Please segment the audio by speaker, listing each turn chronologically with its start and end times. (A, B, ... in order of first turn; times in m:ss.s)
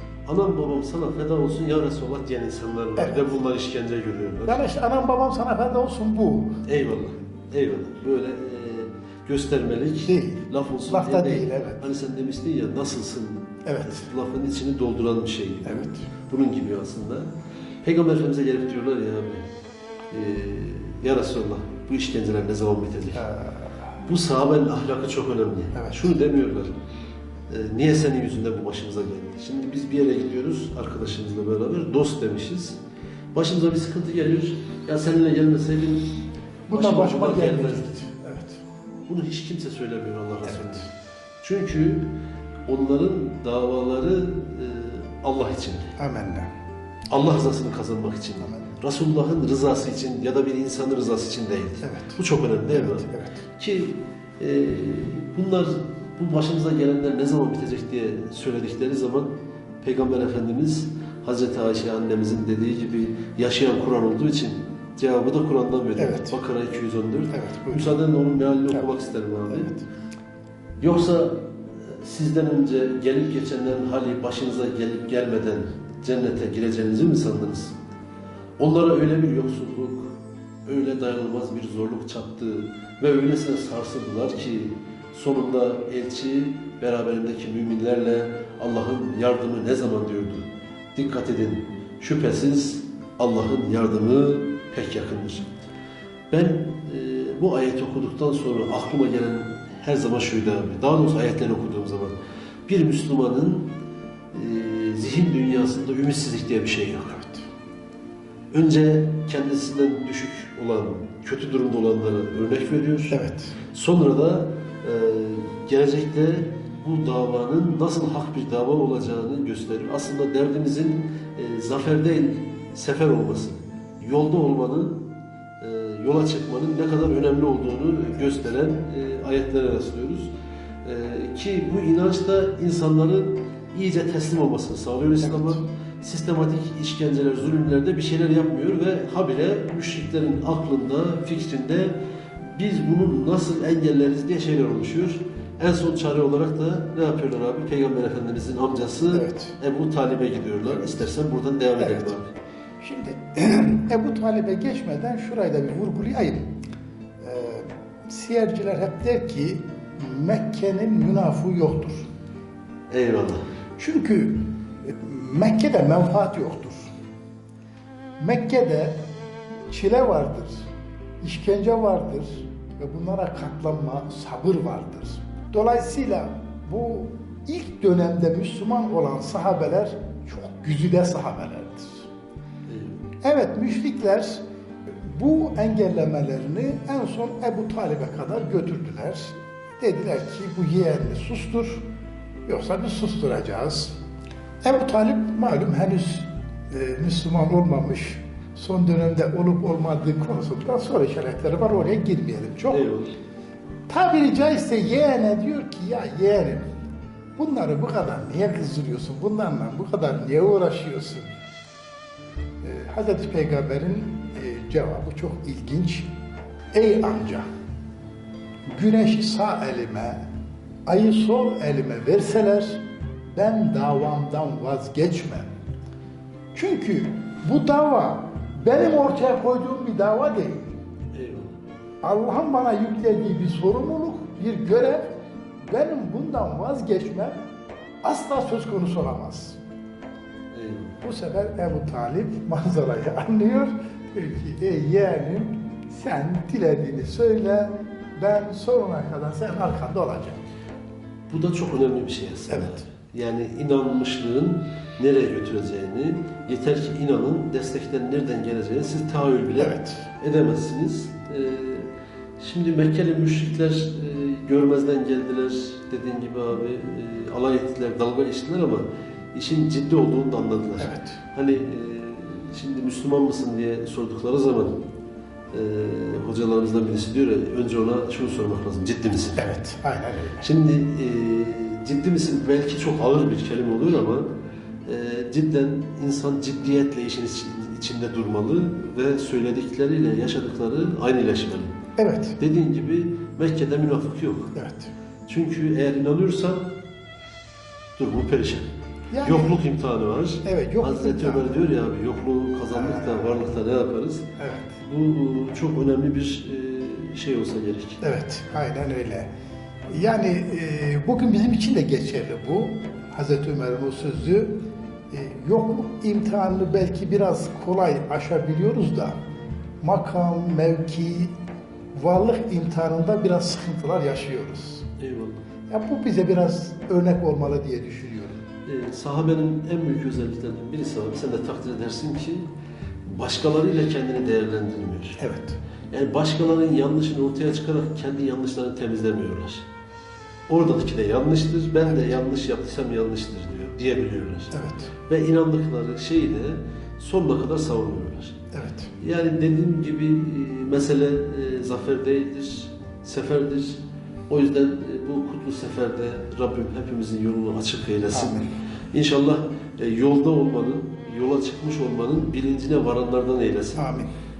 0:00.2-0:04.7 A
0:03.0-0:03.3 B
0:04.4-0:06.6 B
0:06.6-0:17.3 A
0:10.0-0:11.8 B
0:13.6-0:14.1 B
0:15.6-0:16.1 B
0:17.8-0:19.5 A
0:20.1-0:23.2 A
0:23.1-0:23.8 B
0:24.0-0:26.8 A
0:25.7-0:26.1 B
0:27.5-0:32.8 A
0:33.3-0:36.1 A
0:36.7-0:38.6 B
0:36.7-0:38.0 A
0:39.1-0:40.9 A
0:40.4-0:40.8 B
0:41.4-0:42.1 A
0:42.7-0:45.9 A
0:46.0-0:46.5 B
0:47.1-1:09.7 A
0:48.4-0:48.8 B
0:51.8-0:53.4 B
1:06.0-1:06.4 B
1:07.3-1:08.0 B
1:09.5-1:09.8 B
1:10.8-1:17.8 A
1:18.6-1:35.5 A
1:36.3-1:43.7 A
1:44.3-1:47.2 A
1:47.1-1:47.4 B
1:48.5-1:53.2 A
1:53.1-1:53.6 B
1:53.7-2:05.1 A
2:05.6-2:10.3 A
2:10.8-2:32.3 A
2:15.2-2:15.6 B
2:29.1-2:29.6 B
2:30.8-2:31.0 B
2:31.8-2:32.1 B
2:32.8-2:36.5 B
2:37.2-2:42.0 B
2:42.9-2:43.4 A
2:43.8-2:46.9 B
2:48.2-2:49.0 B
2:49.7-2:50.7 B
2:51.2-3:02.1 B
3:02.7-3:03.0 A
3:03.2-3:04.4 B
3:05.0-3:11.8 B
3:12.4-3:13.9 B
3:14.6-3:22.8 B
3:22.7-3:23.1 A
3:23.9-3:26.6 B
3:27.4-3:31.3 B
3:32.6-3:36.1 B
3:36.7-3:37.4 B
3:38.7-3:40.2 B
3:40.8-3:45.5 B
3:46.5-3:50.8 B
3:51.1-3:51.5 A
3:52.0-3:55.1 B
3:55.7-3:57.3 B
3:58.0-3:59.6 B
4:00.5-4:01.0 A
4:01.0-4:10.4 B
4:11.3-4:34.8 A
4:12.5-4:12.8 B
4:19.6-4:20.0 B
4:30.8-4:31.2 B
4:35.5-4:39.5 A
4:39.4-4:40.5 B
4:40.4-4:44.3 A
4:44.8-4:51.7 A
4:52.0-4:52.4 B
4:52.4-4:54.6 A
4:54.5-4:54.9 B
4:55.3-4:56.7 A
4:58.0-4:58.7 A
4:59.1-4:59.6 B
4:59.2-5:04.2 A
5:00.4-5:01.6 B
5:02.7-5:03.5 B
5:04.4-5:04.8 B
5:04.8-5:08.0 A
5:08.0-5:09.3 B
5:09.9-5:14.6 B
5:15.1-5:19.2 B
5:19.8-5:21.3 B
5:21.9-5:24.8 B
5:25.0-5:25.4 A
5:25.7-5:28.4 B
5:28.6-5:32.5 A
5:33.0-5:35.2 A
5:35.2-5:35.6 B
5:35.9-5:39.6 A
5:40.5-5:48.4 A
5:44.5-5:44.9 B
5:48.5-5:48.9 B
5:49.0-5:58.4 A
5:58.1-5:58.5 B
5:58.9-6:03.9 A
6:03.8-6:04.1 B